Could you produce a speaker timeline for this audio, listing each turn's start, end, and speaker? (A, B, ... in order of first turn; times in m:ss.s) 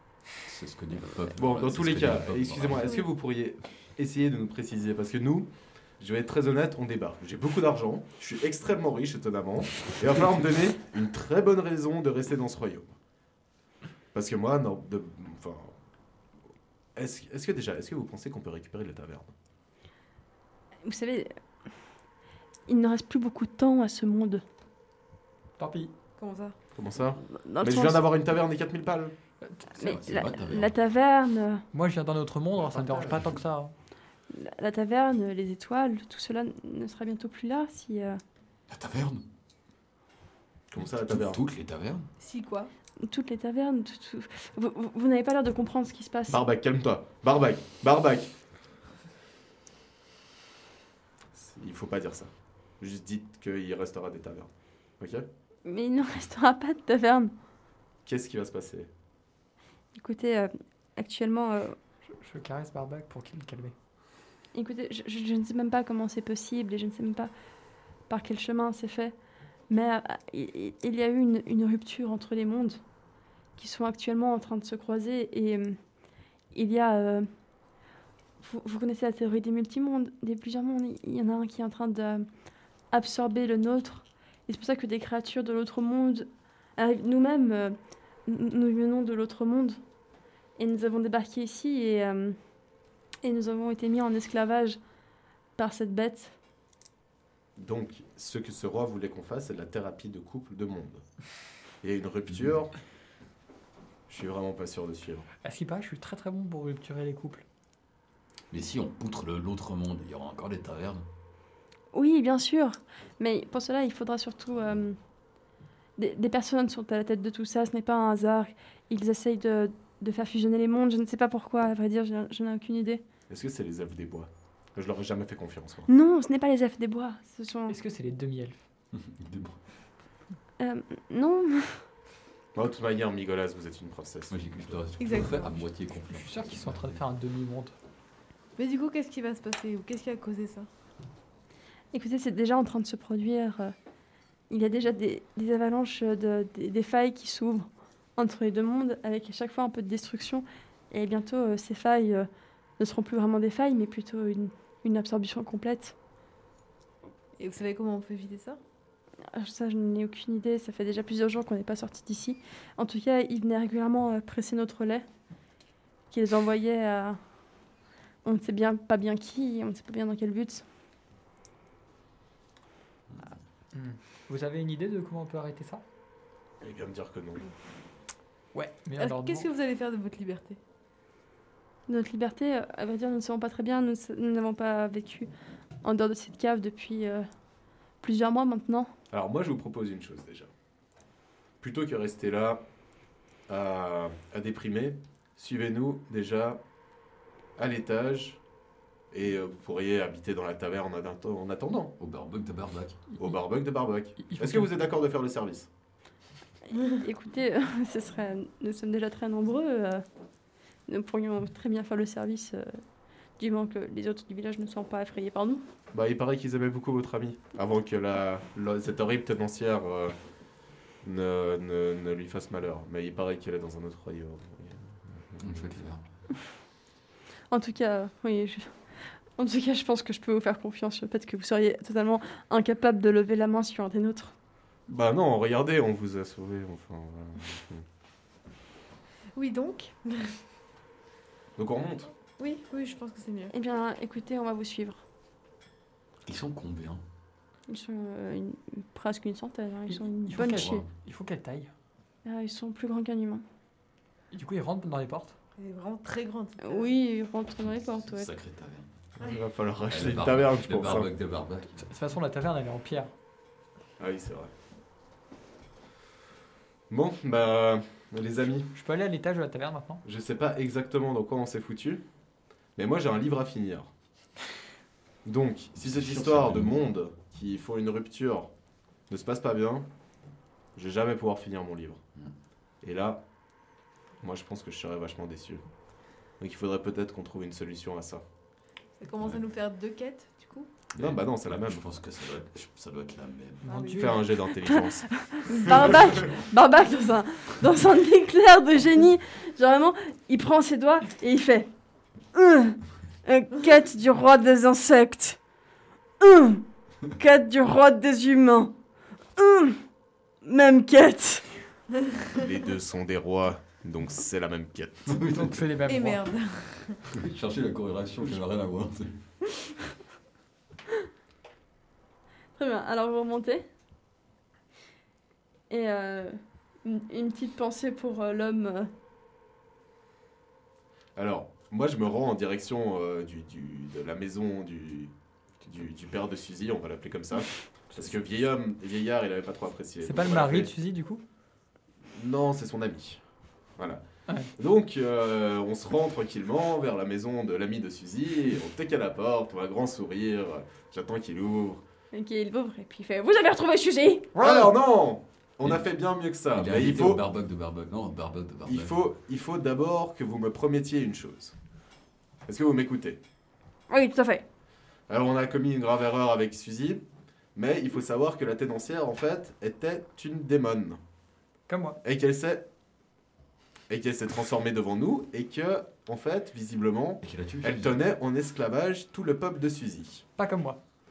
0:00.5-0:02.9 A
0:01.4-0:05.5 B
0:06.0-0:13.0 B
0:14.1-0:15.8 B
0:17.0-0:19.3 B
0:20.8-0:21.4 C
0:22.7-0:24.4 C
0:25.6-0:25.9 D
0:26.2-0:26.6 E
0:26.7-0:29.1 B
0:27.3-0:28.1 C
0:29.8-0:31.7 C
0:29.8-0:30.7 A
0:31.7-0:33.7 D
0:32.7-0:33.3 A
0:32.8-0:33.1 B
0:34.3-0:38.2 C
0:38.7-0:39.2 A
0:40.7-0:41.4 B
0:40.8-0:42.1 A
0:42.2-0:42.7 E
0:43.0-0:46.4 C
0:46.3-0:48.3 B
0:51.3-0:55.3 B
0:55.7-0:57.3 C
0:58.0-0:58.9 B
1:00.0-1:01.8 C
1:02.1-1:03.8 D
1:04.5-1:07.3 C
1:08.1-1:09.2 C
1:09.7-1:12.8 C
1:13.6-1:15.8 C
1:16.5-1:17.3 C
1:18.4-1:22.3 C
1:22.9-1:29.8 C
1:30.6-1:32.4 C
1:33.2-1:34.8 C
1:35.6-1:36.4 C
1:37.6-1:41.0 B
1:41.8-1:42.7 B
1:44.1-1:45.3 B
1:45.4-1:47.4 D
1:48.5-1:51.0 A
1:51.9-1:55.0 C
1:56.0-2:03.0 C
2:03.3-2:05.9 B
2:05.9-2:07.8 C
2:07.7-2:08.6 D
2:08.9-2:09.6 A
2:10.6-2:11.8 C
2:12.6-2:14.8 B
2:14.3-2:17.0 A
2:15.0-2:15.6 E
2:16.1-2:17.7 D
2:18.6-2:20.7 E
2:21.9-2:23.7 C
2:24.5-2:32.3 C
2:32.8-2:36.0 C
2:37.4-2:38.6 E
2:39.3-2:45.1 C
2:46.1-2:47.2 C
2:48.2-2:50.6 C
2:53.7-2:55.8 D
2:56.6-2:57.5 B
2:58.5-2:59.5 D
2:59.0-3:00.6 E
3:01.9-3:05.3 C
3:05.8-3:07.3 C
3:08.0-3:08.9 C
3:09.1-3:10.5 B
3:11.6-3:12.6 B
3:13.5-3:16.6 B
3:17.6-3:18.4 B
3:19.1-3:21.9 B
3:22.0-3:23.0 A
3:23.2-3:25.7 B
3:24.2-3:24.7 D
3:26.7-3:30.0 C
3:30.9-3:32.8 C
3:33.4-3:35.6 C
3:35.9-3:40.2 B
3:41.0-3:45.8 B
3:45.4-3:46.0 A
3:47.5-3:48.8 C
3:49.4-3:54.3 C
3:54.9-3:57.8 B
3:59.4-4:00.4 E
4:01.6-4:02.1 B
4:02.4-4:03.5 E
4:03.5-4:05.0 C
4:06.3-4:07.0 A
4:07.7-4:10.9 C
4:09.9-4:11.7 D
4:10.4-4:10.8 A
4:12.2-4:13.4 C
4:14.3-4:15.4 D
4:15.6-4:16.9 E
4:16.6-4:18.3 C
4:17.8-4:18.9 A
4:19.2-4:21.1 B
4:19.9-4:21.8 A
4:21.8-4:23.1 D
4:24.0-4:24.5 B
4:26.9-4:28.7 B
4:28.7-4:30.0 D
4:30.0-4:32.0 B
4:32.8-4:33.9 B
4:35.2-4:38.5 B
4:35.8-4:36.8 A
4:39.1-4:39.9 B
4:40.8-4:42.0 B
4:42.8-4:43.2 B
4:44.2-4:45.6 B
4:46.4-4:48.2 B
4:49.0-4:50.7 E
4:51.0-4:51.9 B
4:51.0-4:53.8 A
4:53.6-4:54.2 E
4:53.6-4:54.2 D
4:54.0-4:55.1 B
4:54.6-5:01.7 C
5:02.3-5:05.4 C
5:06.2-5:08.7 C
5:09.4-5:09.8 C
5:10.4-5:11.5 C
5:12.3-5:15.2 B
5:15.1-5:15.7 A
5:15.3-5:16.2 D
5:15.8-5:17.0 E
5:17.1-5:19.2 A
5:22.6-5:23.6 C
5:25.7-5:28.9 C
5:31.2-5:35.1 B
5:35.7-5:40.7 B
5:40.0-5:41.2 D
5:42.1-5:43.2 B
5:43.8-5:44.0 B
5:44.6-5:51.8 B
5:52.1-5:54.3 C
5:54.4-5:54.7 D
5:54.4-5:57.2 B
5:56.5-5:59.0 A
5:58.7-6:01.6 B
6:02.5-6:03.2 B
6:03.9-6:04.4 C
6:05.1-6:07.0 B
6:07.6-6:11.0 B
6:11.7-6:12.0 D
6:12.0-6:12.6 B
6:13.9-6:20.2 B
6:17.2-6:18.0 A
6:20.4-6:20.8 D